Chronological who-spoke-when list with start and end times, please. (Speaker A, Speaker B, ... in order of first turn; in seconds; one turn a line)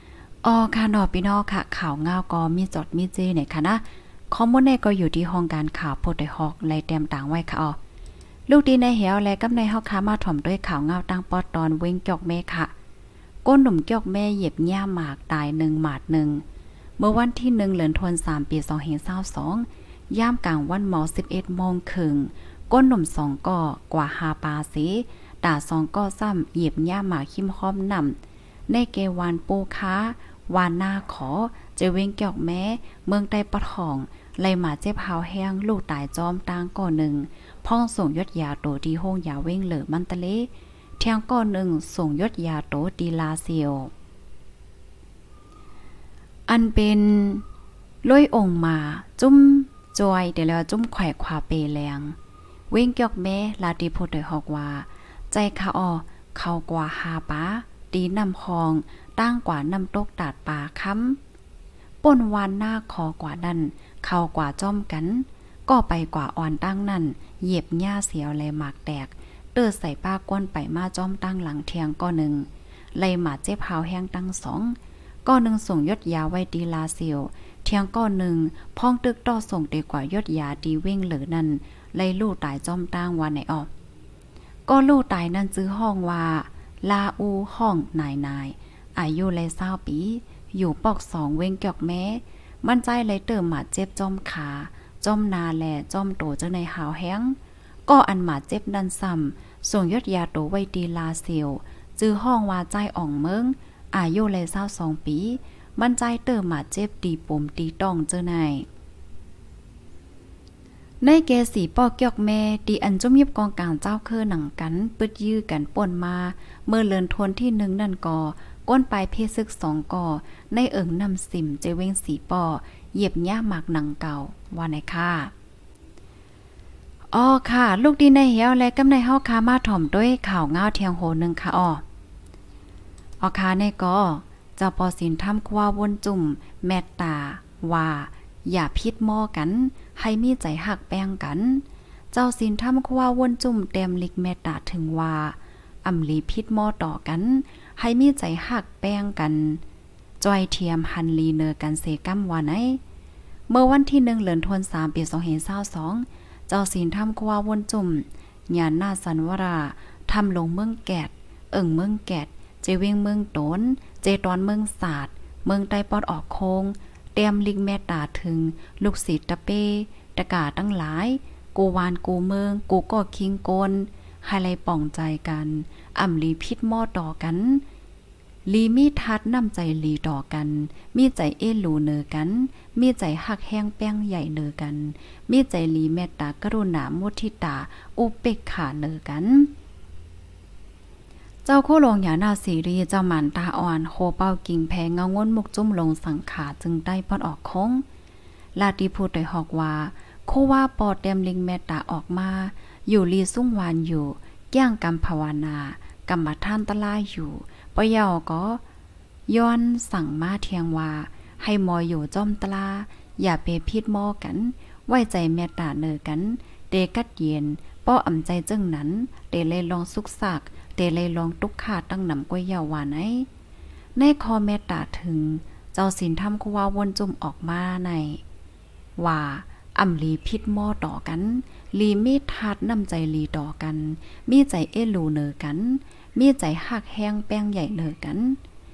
Speaker A: 0.4-7.8
Speaker A: 8.5-12.7
Speaker A: 13.4-16.4
Speaker A: 17.0-28.2
Speaker A: 28.7-43.9
Speaker A: 46.5-47.4
Speaker A: 48.0-52.1
Speaker A: 52.7-61.2
Speaker A: 62.0-83.7
Speaker A: 84.7-97.4
Speaker A: 97.9-108.7
Speaker A: 111.0-125.3
Speaker A: 127.1-131.8
Speaker A: 133.2-149.6
Speaker A: 150.2-152.8
Speaker A: 153.5-177.6
Speaker A: 178.5-189.5
Speaker A: 191.4-197.8
Speaker A: 198.6-208.6
Speaker A: 209.3-223.3
Speaker A: 224.0-228.2
Speaker A: 229.0-238.4